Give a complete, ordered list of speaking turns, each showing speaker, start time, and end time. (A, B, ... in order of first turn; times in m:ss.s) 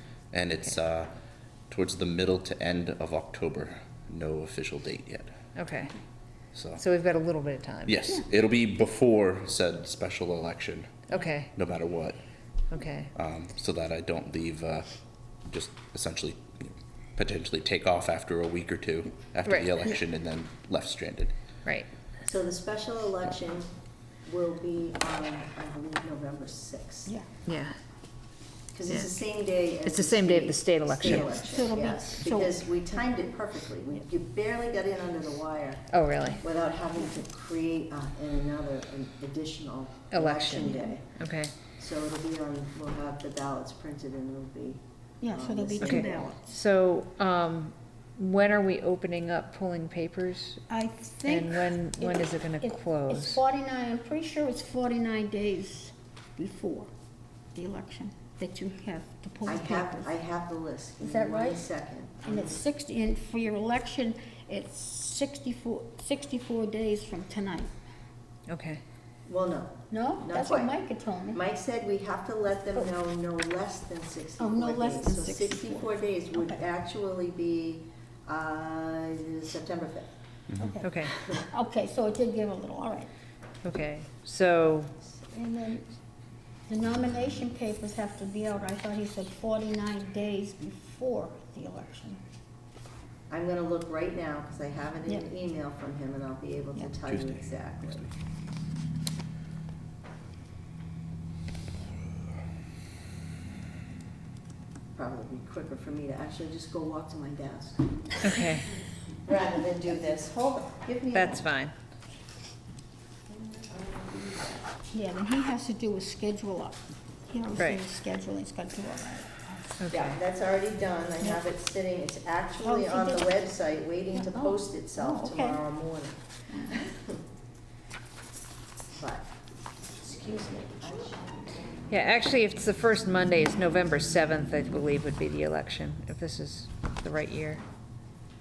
0:00.3-0:01.1 A
0:01.7-0:05.4 A
0:05.5-0:06.0 B
0:06.5-0:06.8 A
0:06.8-0:08.0 B
0:07.8-0:10.9 A
0:11.1-0:11.5 B
0:11.5-0:12.2 A
0:12.7-0:13.1 B
0:13.1-0:14.9 A
0:15.4-0:21.3 A
0:19.4-0:19.7 B
0:22.2-0:23.7 C
0:24.2-0:27.1 C
0:27.4-0:27.8 B
0:28.7-0:41.1 C
0:28.9-0:29.2 B
0:29.8-0:31.4 B
0:31.3-0:32.6 D
0:35.9-0:36.4 B
0:40.1-0:41.5 B
0:40.6-0:40.9 D
0:41.7-0:46.3 C
0:45.2-0:46.6 D
0:45.8-0:50.6 B
0:50.7-0:56.9 D
0:51.2-0:53.4 B
0:57.5-1:00.1 D
0:59.4-1:02.6 C
1:01.0-1:01.6 D
1:02.2-1:07.7 D
1:08.5-1:08.8 B
1:09.2-1:10.7 C
1:09.9-1:11.4 D
1:11.3-1:20.1 C
1:14.4-1:16.6 D
1:20.6-1:23.1 D
1:20.8-1:21.2 B
1:23.6-1:24.9 B
1:25.1-1:25.9 D
1:26.7-1:32.2 D
1:33.3-1:38.0 C
1:37.0-1:38.1 A
1:44.9-1:48.0 C
1:48.2-1:48.7 B
1:49.2-1:51.5 C
1:51.1-1:51.7 B
1:53.3-1:54.6 C
1:54.9-1:59.7 D
1:57.6-1:57.8 B
1:59.8-2:00.2 B
1:59.9-2:07.2 C
2:02.6-2:03.3 D
2:04.1-2:05.6 D
2:06.5-2:06.8 D
2:08.9-2:09.3 C
2:09.9-2:11.3 C
2:11.9-2:17.6 B